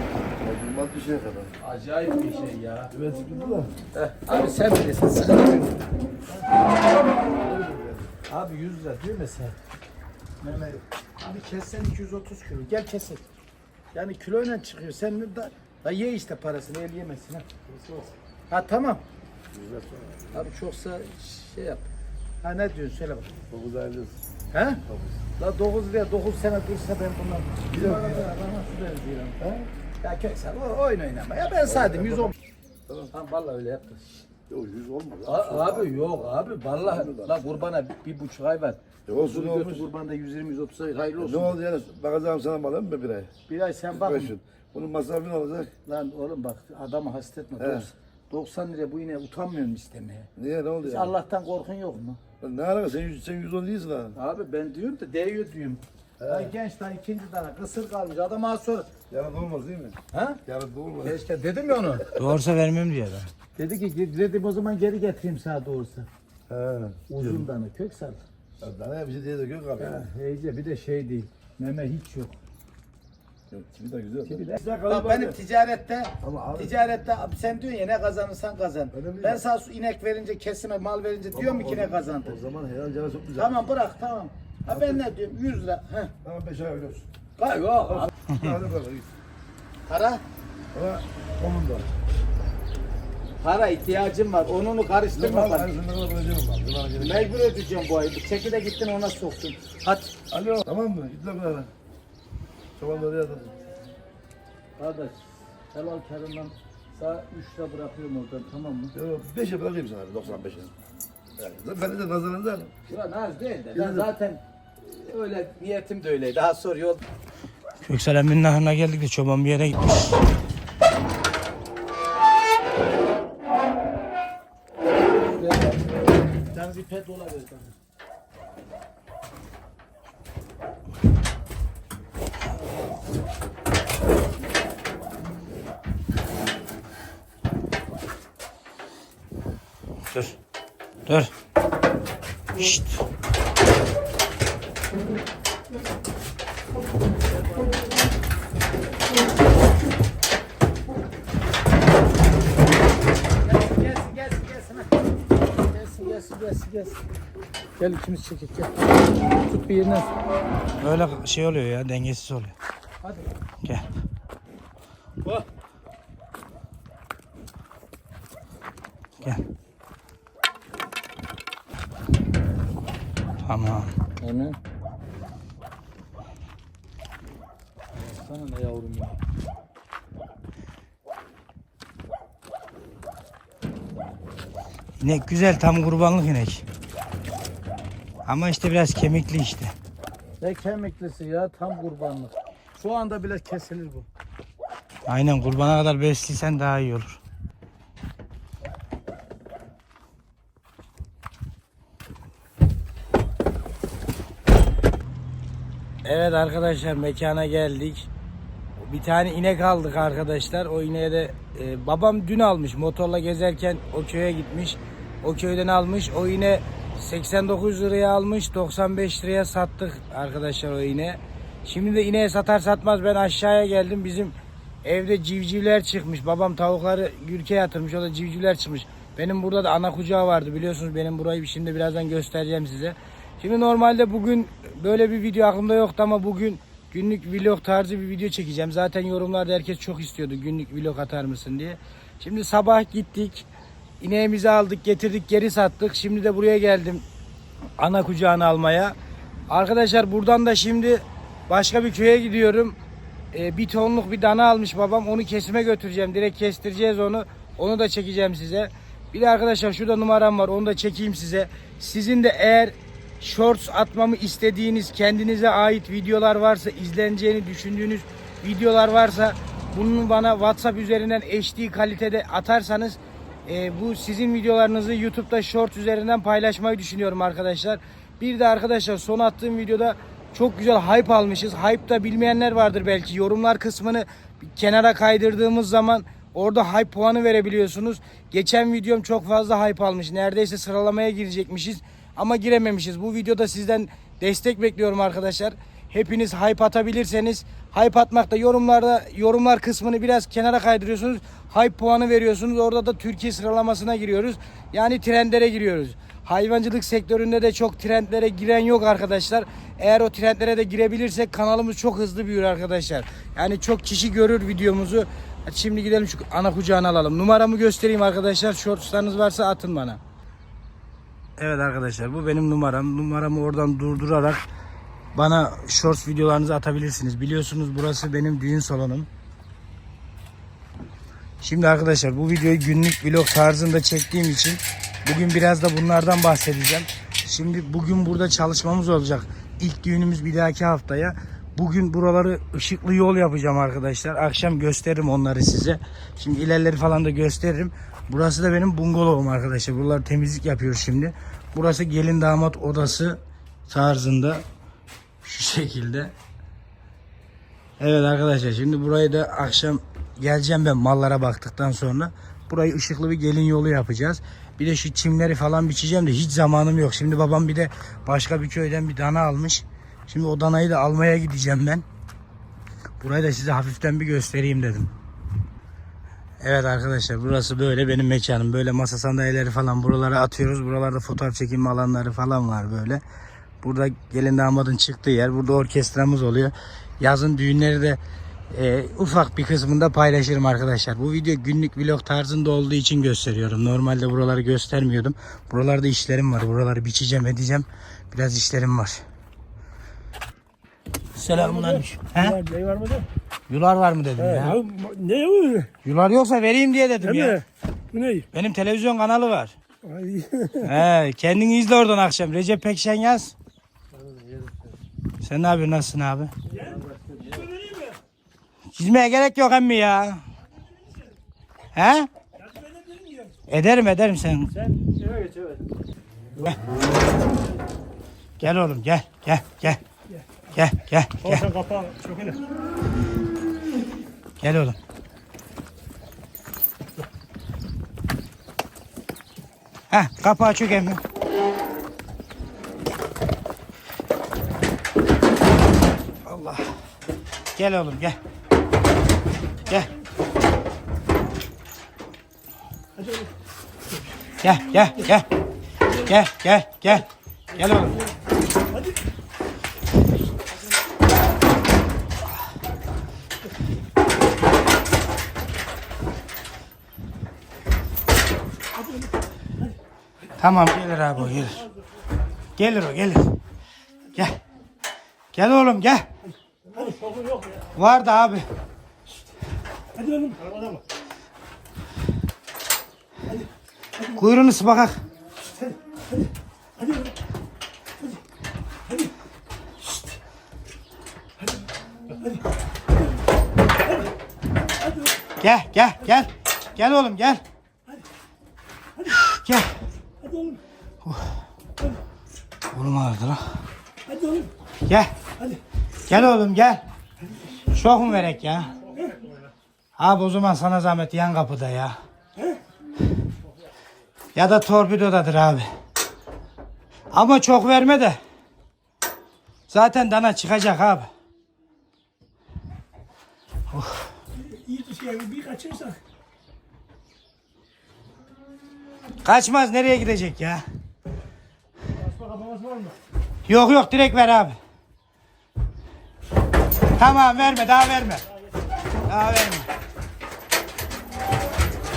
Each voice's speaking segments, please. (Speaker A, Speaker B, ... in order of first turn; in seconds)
Speaker A: 0.4-1.5, 2.9-3.7, 7.3-8.1, 17.7-18.1, 19.5-20.5, 23.5-24.2, 24.9-25.2, 27.7-28.3, 29.4-29.7, 31.7-32.3, 34.5-37.5, 39.1-39.9, 41.2-43.3, 43.9-45.7, 47.6-47.9, 50.4-51.1, 52.4-54.2, 56.2-56.5, 59.1-61.2, 66.5-67.5, 68.6-70.1, 73.5-75.4, 76.2-76.7, 78.9-79.4, 81.3-83.6, 84.7-85.0, 86.2-87.1, 87.9-89.1, 90.7-91.9, 95.1-97.3, 100.3-101.7, 102.8-103.6, 108.9-110.7, 111.4-112.7, 113.8-114.1
Speaker B: 1.6-2.9, 3.9-5.8, 8.3-9.6, 10.4-13.2, 13.9-17.7, 18.5-19.0, 20.3-21.9, 22.4-23.3, 24.5-24.8, 25.4-29.4, 30.0-32.4, 33.1-34.3, 35.2-41.6, 43.5-44.3, 45.9-50.3, 50.8-52.2, 54.2-58.9, 60.1-60.4, 61.0-62.2, 63.6-66.1, 67.1-68.2, 69.8-72.4, 74.3-82.4, 83.4-86.1, 87.4-88.1, 89.9-90.2, 93.4-95.7, 97.0-100.1, 104.8-108.9, 112.9-117.0, 125.2-127.7, 153.4-157.0, 157.8-160.1, 163.0-163.3, 174.2-174.6, 177.9-179.2, 190.4-194.1, 413.9-414.6, 416.5-417.6, 424.7-425.6
Speaker C: 62.2-63.3, 117.8-120.2, 141.1-141.3, 142.6-143.0, 160.8-162.6, 173.4-173.9, 185.0-186.6, 188.3-189.7, 195.1-197.2, 206.1-208.1, 208.8-224.3, 224.8-243.5, 244.0-247.0, 247.8-248.9, 249.5-252.8, 253.3-320.0, 321.4-324.4, 325.1-329.1, 331.4-354.4, 355.2-356.1, 357.8-371.8, 373.0-374.9, 376.4-383.0, 383.6-388.0, 388.5-399.0, 401.1-402.4, 403.5-404.6, 405.8-407.4, 408.3-409.6, 410.6-413.3, 415.2-416.3, 418.7-420.2, 421.7-422.1, 423.5-424.5, 428.4-429.8, 430.5-431.5, 434.4-434.8, 439.9-441.0, 446.2-446.7, 447.6-448.2, 449.7-449.9, 454.4-455.3, 455.9-458.0, 470.4-471.7, 472.6-473.3, 475.3-476.1, 477.8-478.4, 484.0-485.0, 495.4-497.4, 499.0-499.8, 501.0-501.3, 502.7-503.6, 506.1-506.8, 507.7-508.7, 510.0-511.9, 514.4-515.7, 517.1-518.2, 519.7-521.1, 523.7-524.1, 529.2-530.6, 533.5-534.6, 537.0-538.3, 539.1-539.6
Speaker D: 404.7-405.7, 407.9-408.2, 431.4-432.4, 480.1-480.8, 524.5-526.0
Speaker E: 404.7-405.6, 431.6-432.3, 476.9-477.5, 480.0-480.8, 524.8-525.8, 532.3-532.9